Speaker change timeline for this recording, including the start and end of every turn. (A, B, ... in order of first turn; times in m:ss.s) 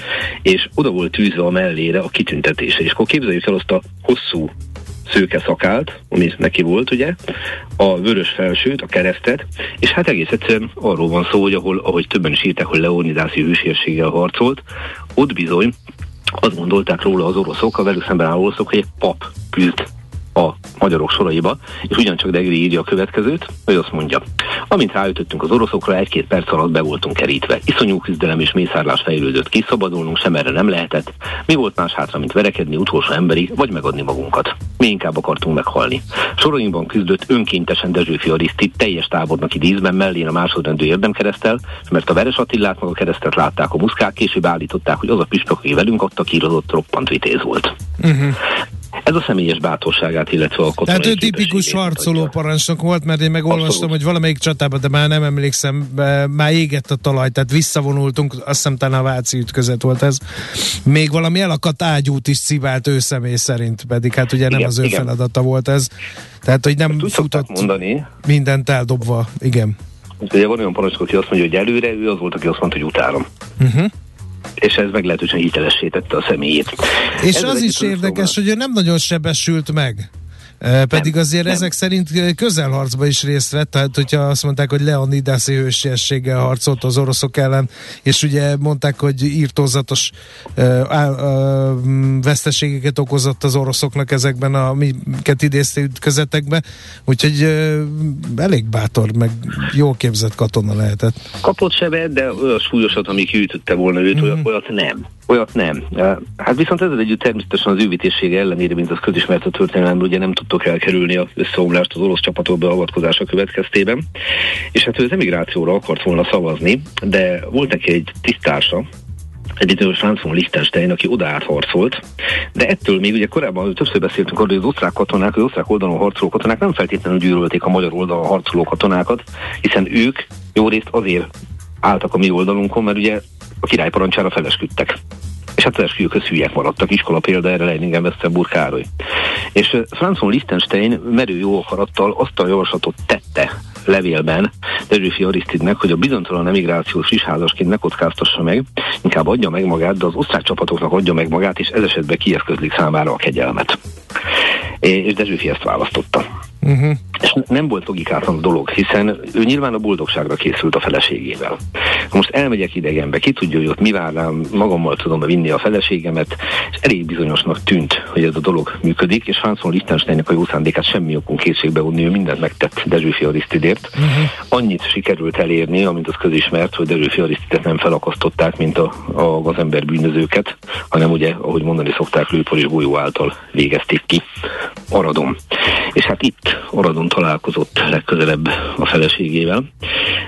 0:00.4-0:04.5 A
0:05.1-0:07.2 A
0:07.8-0:14.6 A
0:15.2-0:15.8 A
0:16.4-0:47.8 A
0:48.0-0:48.4 B
0:49.1-0:52.3 A
0:50.9-1:05.9 B
0:53.5-0:53.9 A
1:04.5-1:05.1 A
1:06.4-1:07.7 B
1:06.9-1:08.1 A
1:08.2-1:09.8 B
1:10.2-1:13.3 A
1:13.6-1:13.9 B
1:14.6-1:18.3 A
1:17.2-1:20.1 B
1:20.6-1:41.2 B
1:21.0-1:21.6 A
1:41.4-1:54.0 A
1:54.7-1:58.9 A
1:59.6-2:02.0 A
2:02.6-2:11.3 A
2:11.8-2:15.0 A
2:15.6-2:18.9 A
2:19.6-2:33.8 A
2:34.8-2:36.2 A
2:36.6-2:37.0 B
2:37.2-2:41.6 A
2:42.1-2:54.0 A
2:54.0-2:54.3 B
2:54.5-3:04.2 A
3:04.9-3:05.4 A
3:05.9-3:09.6 A